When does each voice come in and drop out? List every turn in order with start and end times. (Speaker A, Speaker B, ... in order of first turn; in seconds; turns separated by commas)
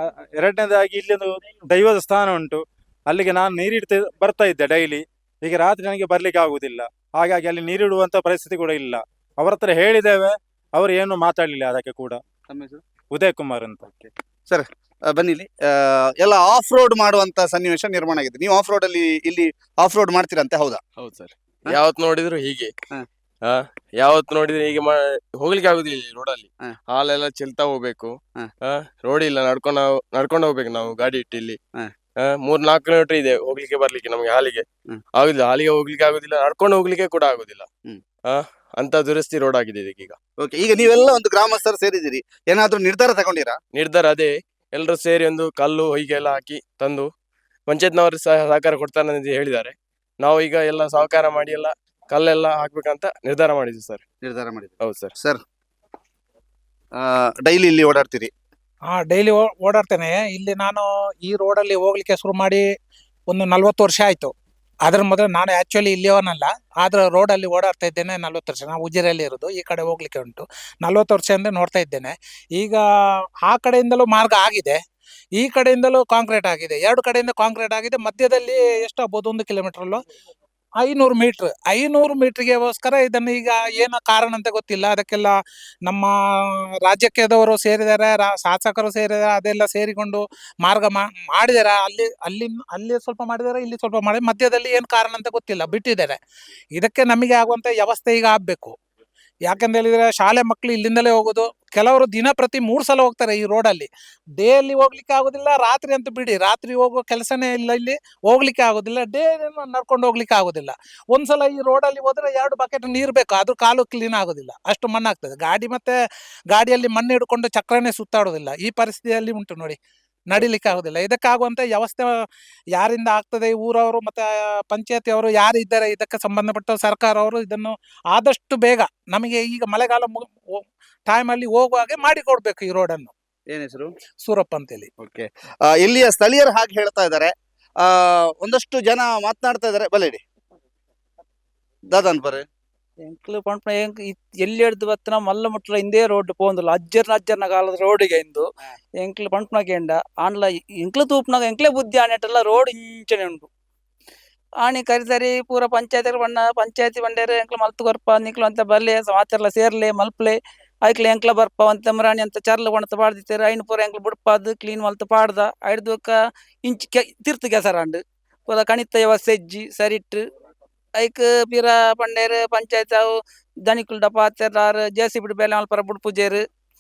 Speaker A: 0.4-12.2, Speaker B: 12.5-12.8, Speaker A: 13.1-13.8, Speaker B: 14.0-20.8, Speaker C: 21.0-22.7, Speaker C: 23.4-31.6, Speaker C: 32.2-37.7, Speaker C: 38.2-40.2, Speaker B: 40.4-43.6, Speaker C: 43.7-47.1, Speaker C: 47.7-54.0, Speaker B: 54.2-55.4, Speaker C: 54.8-55.1, Speaker B: 57.0-58.3, Speaker D: 58.9-62.6, Speaker D: 63.3-64.3, Speaker D: 64.8-72.8, Speaker D: 73.5-74.8, Speaker D: 75.4-80.0, Speaker D: 80.8-85.3, Speaker D: 85.8-86.1, Speaker D: 86.8-96.2, Speaker D: 96.8-98.8, Speaker D: 99.5-103.9, Speaker D: 104.4-115.9, Speaker D: 116.5-119.8, Speaker D: 120.3-122.1, Speaker D: 122.7-133.1, Speaker B: 133.5-133.9, Speaker D: 134.2-134.9, Speaker B: 135.0-140.2, Speaker B: 141.9-142.5, Speaker E: 143.1-148.5, Speaker E: 149.0-153.5, Speaker E: 154.6-170.2, Speaker E: 171.0-173.1, Speaker E: 173.7-176.4